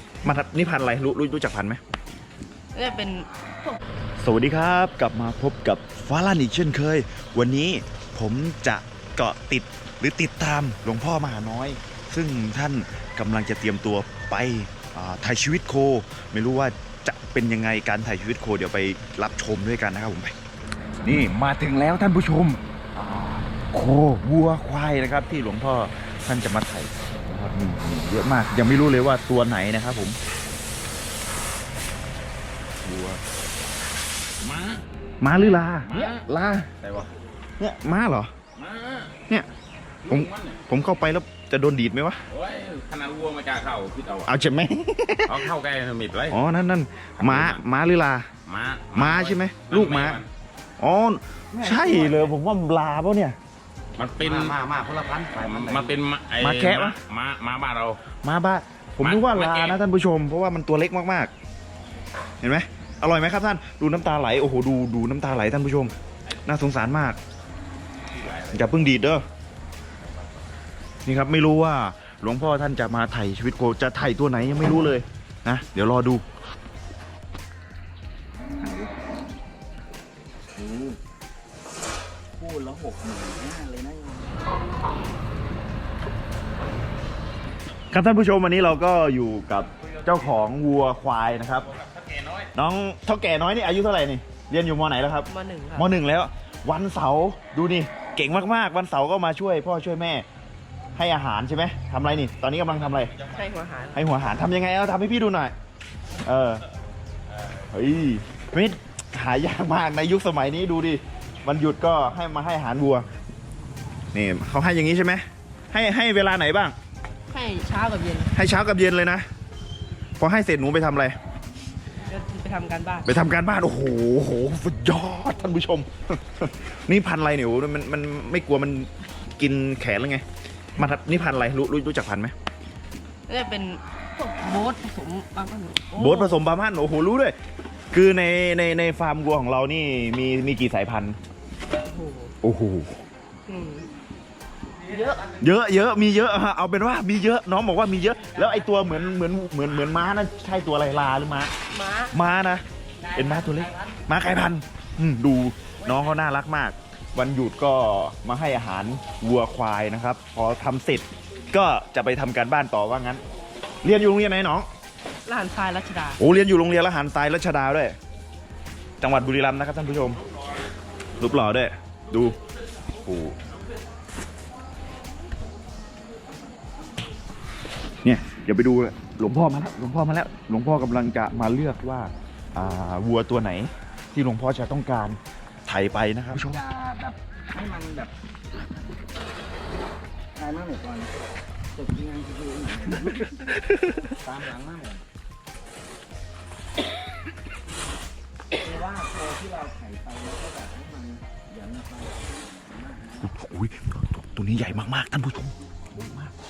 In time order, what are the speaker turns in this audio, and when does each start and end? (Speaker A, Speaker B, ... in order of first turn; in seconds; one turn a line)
Speaker A: 0.2-1.8
Speaker B: 2.7-3.8
Speaker A: 4.2-20.3
Speaker A: 21.0-30.2
Speaker A: 32.8-33.2
Speaker C: 34.4-36.2
Speaker A: 35.2-36.7
Speaker C: 36.8-37.1
Speaker A: 37.6-38.3
Speaker C: 38.5-39.1
Speaker C: 40.0-40.6
Speaker A: 40.1-42.2
Speaker C: 42.3-44.3
Speaker A: 44.2-45.5
Speaker C: 45.3-46.4
Speaker A: 46.3-48.3
Speaker C: 47.2-47.6
Speaker C: 48.5-50.3
Speaker A: 48.9-50.2
Speaker A: 50.8-53.4
Speaker C: 54.0-54.6
Speaker D: 54.6-55.3
Speaker C: 55.3-58.0
Speaker A: 56.4-57.0
Speaker A: 58.2-61.3
Speaker C: 59.0-59.8
Speaker A: 62.4-67.2
Speaker C: 68.1-68.7
Speaker A: 68.5-69.2
Speaker A: 71.0-76.2
Speaker D: 78.6-78.9
Speaker D: 80.5-81.0
Speaker D: 82.4-84.5
Speaker A: 87.9-91.7
Speaker A: 92.5-100.2
Speaker B: 95.3-95.9
Speaker A: 101.0-103.1
Speaker B: 103.2-104.1
Speaker A: 103.9-105.5
Speaker A: 106.2-106.6
Speaker A: 107.7-113.0
Speaker A: 114.1-116.7
Speaker B: 117.3-118.3
Speaker A: 118.3-119.2
Speaker A: 120.2-121.2
Speaker B: 122.0-123.1
Speaker A: 123.0-130.2
Speaker A: 130.7-132.3
Speaker B: 133.3-136.4
Speaker A: 135.9-137.3
Speaker A: 137.9-141.2
Speaker B: 141.8-142.3
Speaker A: 142.4-143.0
Speaker B: 143.5-143.9
Speaker B: 144.8-145.3
Speaker A: 145.4-151.5
Speaker B: 151.7-152.2
Speaker A: 152.1-163.2
Speaker A: 163.8-164.7
Speaker B: 165.2-166.2
Speaker A: 166.2-167.9
Speaker A: 169.0-170.2
Speaker A: 171.2-172.4
Speaker A: 173.0-173.3
Speaker A: 178.0-186.6
Speaker D: 186.3-188.1
Speaker D: 190.3-191.1
Speaker D: 191.7-193.5
Speaker B: 193.6-194.1
Speaker D: 194.1-195.0
Speaker D: 198.5-203.3
Speaker A: 203.2-206.3